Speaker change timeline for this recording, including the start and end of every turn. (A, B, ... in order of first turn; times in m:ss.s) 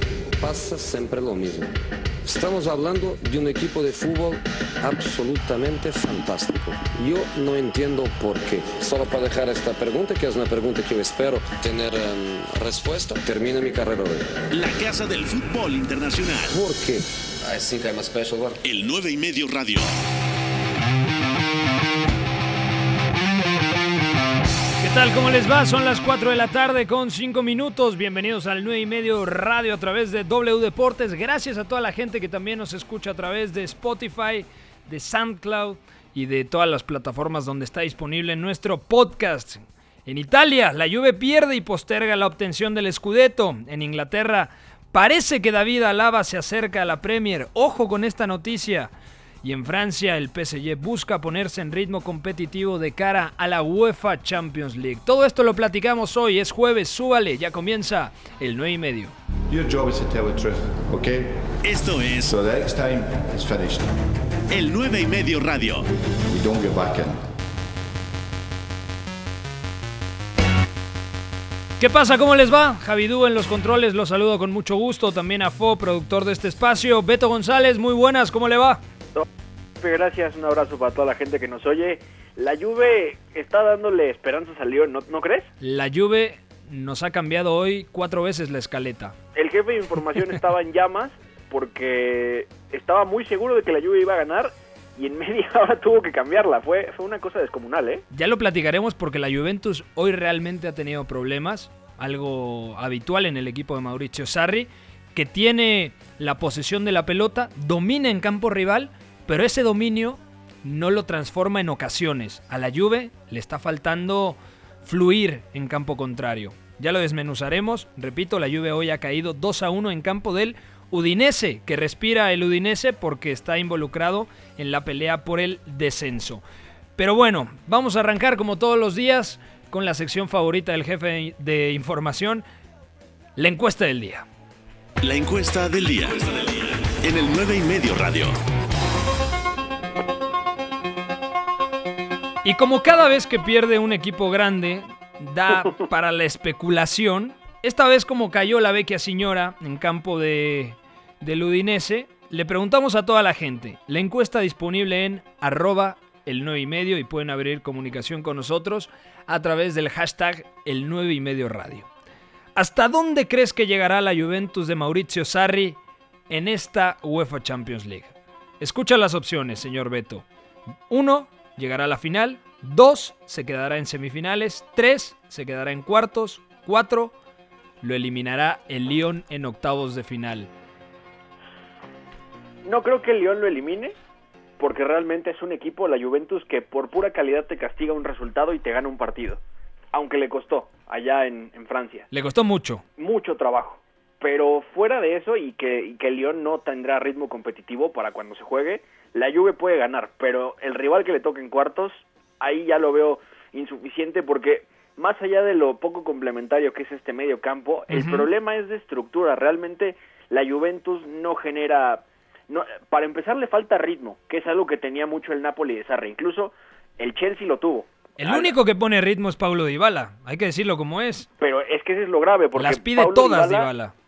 0:00.3-0:01.8 A
0:02.2-0:14.3 A
0:14.5-0:16.6 B
0:16.5-0:18.6 A
0:18.6-0:19.9 B
0:24.8-0:48.9 C
0:49.4-0:59.1 C
0:59.5-1:04.1 D
1:01.6-1:02.3 B
1:04.5-1:05.9 B
1:06.3-1:07.3 D
1:11.8-1:18.8 C
1:19.8-1:25.5 E
1:25.6-1:29.2 C
1:29.4-1:38.0 E
1:38.1-2:06.4 C
2:07.0-2:12.4 C
2:13.4-2:14.3 C
2:15.0-2:18.3 B
2:22.4-2:41.9 C
2:42.6-2:45.8 C
2:46.3-2:50.3 C
2:50.9-2:57.2 C
2:57.8-3:00.5 C
3:02.7-3:04.0 E
3:04.6-3:09.4 E
3:09.9-3:12.1 E
3:12.1-3:12.8 C
3:13.0-3:38.5 E
3:27.9-3:28.3 C
3:38.2-3:41.3 C
3:41.4-3:43.7 E
3:42.6-3:44.0 C